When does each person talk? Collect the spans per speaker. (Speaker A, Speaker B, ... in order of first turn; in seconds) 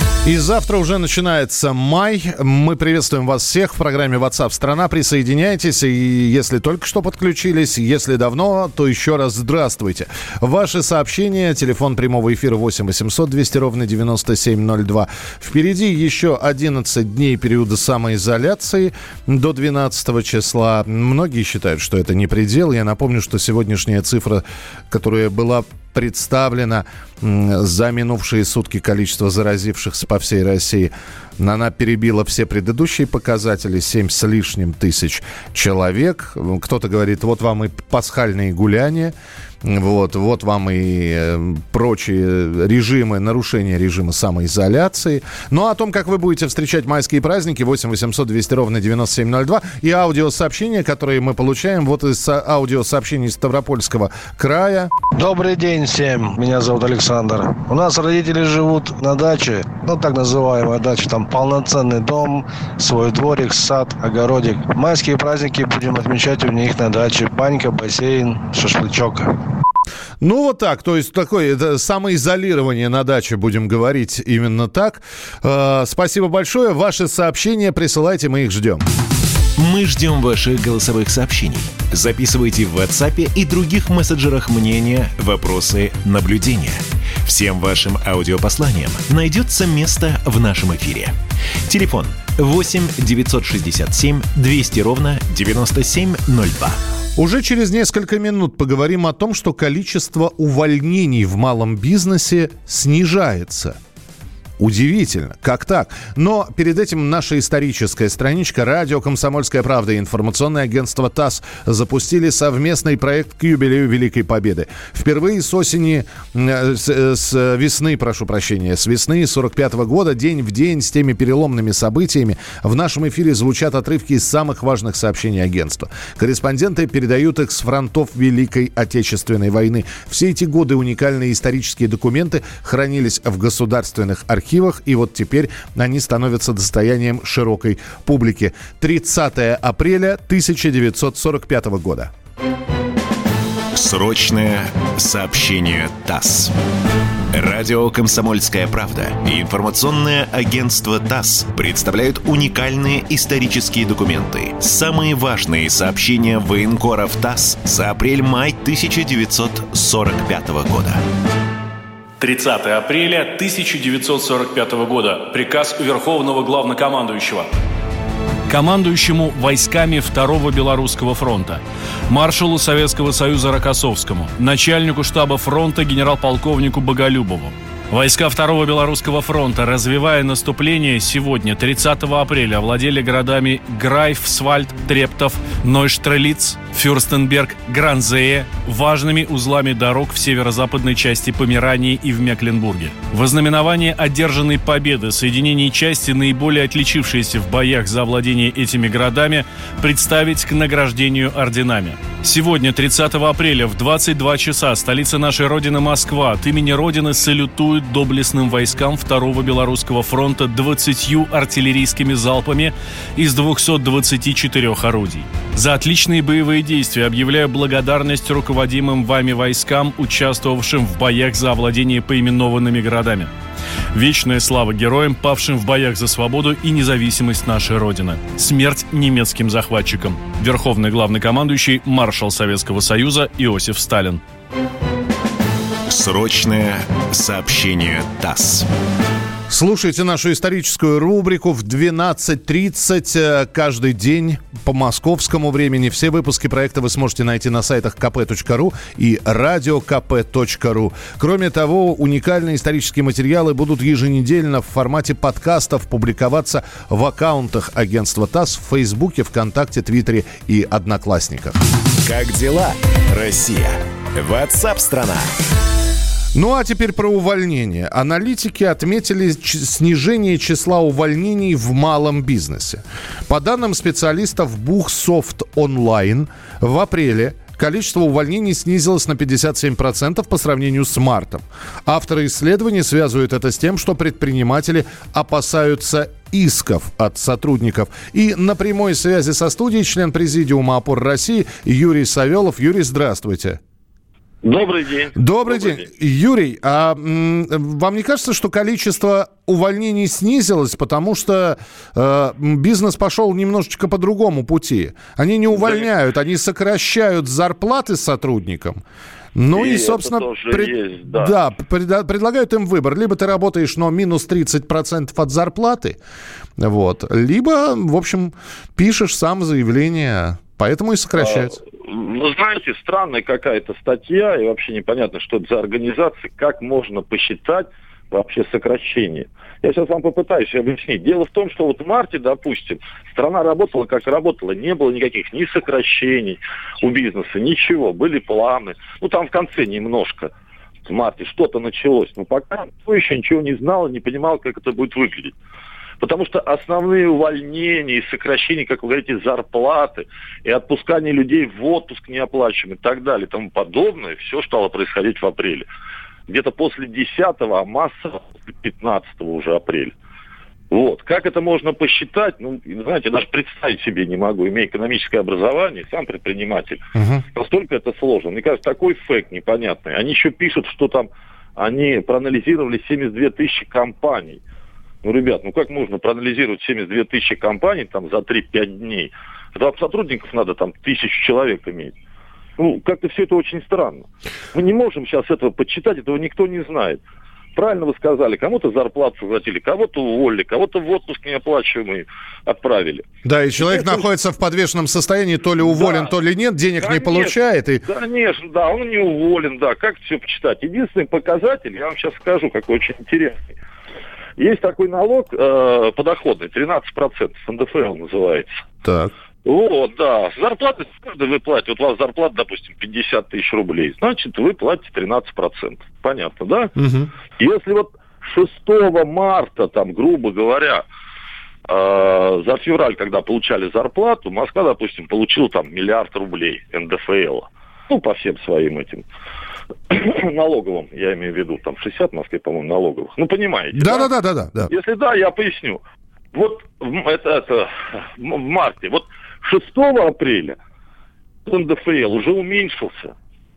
Speaker A: 0.2-54.9, 70.2-78.9, 97.2-103.8, 104.6-142.1, 239.5-261.6, 266.3-293.6, 295.1-308.8, 309.3-316.0, 316.6-321.6, 366.9-367.2, 393.2-397.8, 408.8-409.1, 416.8-417.1, 433.7-434.7
Speaker B: 55.2-69.3
Speaker C: 79.6-91.2, 91.7-96.8, 143.7-146.5, 147.3-161.0, 235.9-238.7, 262.0-265.3
Speaker D: 162.2-167.5, 168.5-223.3, 223.9-234.2
Speaker E: 294.4-295.9, 305.5-305.8, 309.5-311.3, 321.2-340.3, 340.9-345.3, 346.0-355.7, 356.3-359.9, 360.7-366.8, 367.3-374.4, 375.0-381.9, 382.6-387.0, 387.5-393.1, 393.6-394.0, 395.6-396.1, 396.8-403.5, 404.4-408.5, 409.4-416.7, 417.4-420.8, 421.7-429.0, 429.9-434.1, 434.7-435.8, 436.3-440.6, 441.4-443.1